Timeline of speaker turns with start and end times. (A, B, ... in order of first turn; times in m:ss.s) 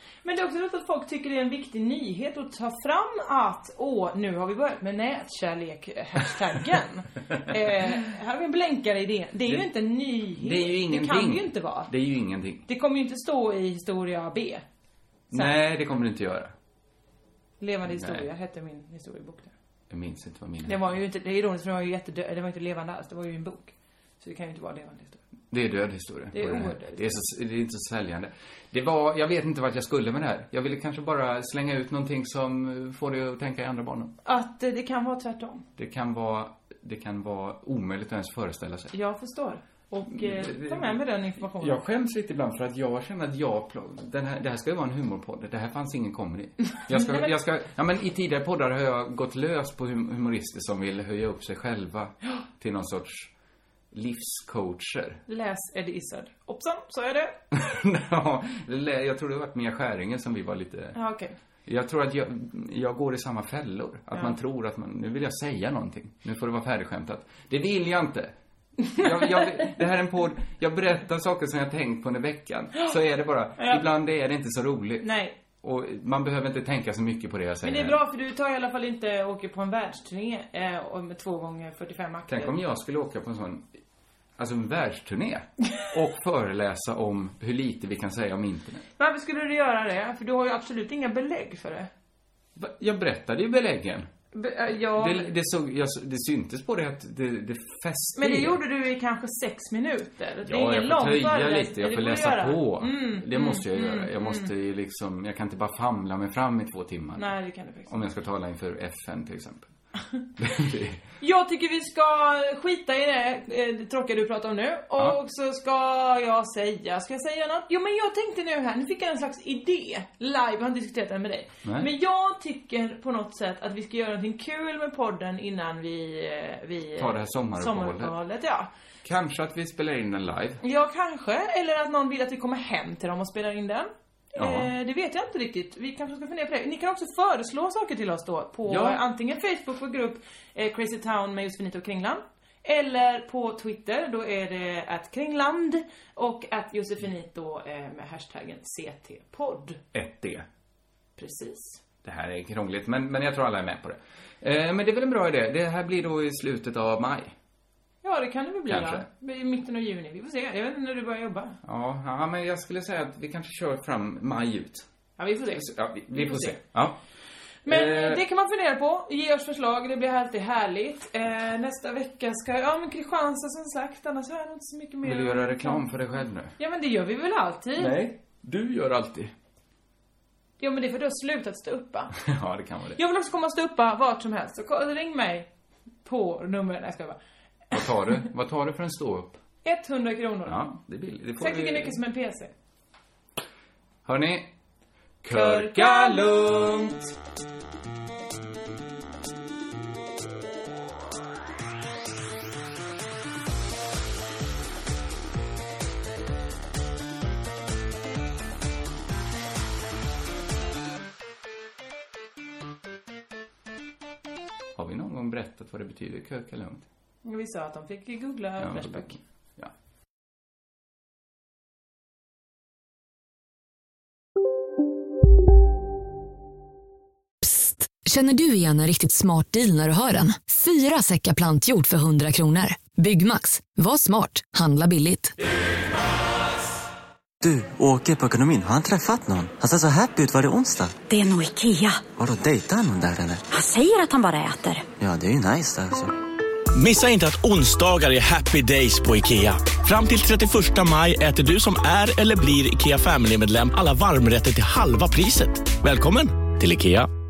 0:00.2-0:11.9 A
0:10.4-0:12.6 B
0:12.6-0:14.6 A
0:15.3-0:15.6 A
0:15.3-0:16.5 B
0:17.6-0:19.5 A
0:17.8-0:18.3 B
0:19.9-0:20.9 B
0:20.6-0:25.2 A
0:25.5-0:34.1 B
0:26.3-0:27.2 A
0:34.2-0:35.6 A
0:35.8-0:38.9 B
0:38.9-0:41.8 A
0:40.1-0:53.3 B
0:46.8-0:47.3 A
0:53.9-0:55.2 B
0:55.3-0:57.3 A
0:57.5-1:01.0 B
1:00.9-1:01.3 A
1:01.6-1:08.3 B
1:08.9-1:09.7 A
1:09.0-1:18.0 B
1:13.6-1:13.8 A
1:15.0-1:15.4 A
1:17.6-1:22.5 A
1:22.3-1:23.7 B
1:24.4-1:28.8 B
1:29.0-1:31.9 A
1:32.6-1:34.1 B
1:34.3-1:35.3 A
1:35.0-1:38.6 B
1:38.2-1:44.5 A
1:40.4-1:47.3 B
1:47.2-1:48.0 A
1:47.9-1:49.7 B
1:50.4-1:51.0 B
1:51.2-2:08.7 A
2:01.6-2:01.9 B
2:07.0-2:08.2 B
2:09.0-2:10.6 B
2:10.6-2:29.8 A
2:14.4-2:14.7 B
2:18.7-2:19.0 B
2:29.9-2:30.4 B
2:31.2-2:31.8 A
2:32.0-2:37.3 B
2:38.0-2:41.6 A
2:38.7-2:39.1 B
2:41.6-2:44.9 B
2:45.2-2:46.6 A
2:45.5-2:47.0 B
2:47.6-2:48.2 B
2:47.6-2:55.8 A
2:55.0-2:56.5 B
2:56.6-2:58.0 A
2:57.8-2:59.3 B
3:00.6-3:02.2 A
3:02.2-3:03.0 B
3:03.0-3:05.5 A
3:06.0-3:07.2 A
3:07.7-3:09.4 B
3:09.6-3:10.7 A
3:10.4-3:12.0 B
3:11.4-3:12.5 A
3:14.0-3:14.5 B
3:15.2-3:17.1 B
3:15.3-3:16.3 A
3:34.8-3:36.9 B
3:37.2-3:39.2 A
3:38.6-3:39.7 B
3:47.4-3:55.4 C
3:57.4-4:01.0 D
4:01.1-4:02.0 E
4:02.2-4:03.4 D
4:03.5-4:04.8 E
4:05.0-4:06.1 D
4:06.7-4:17.1 F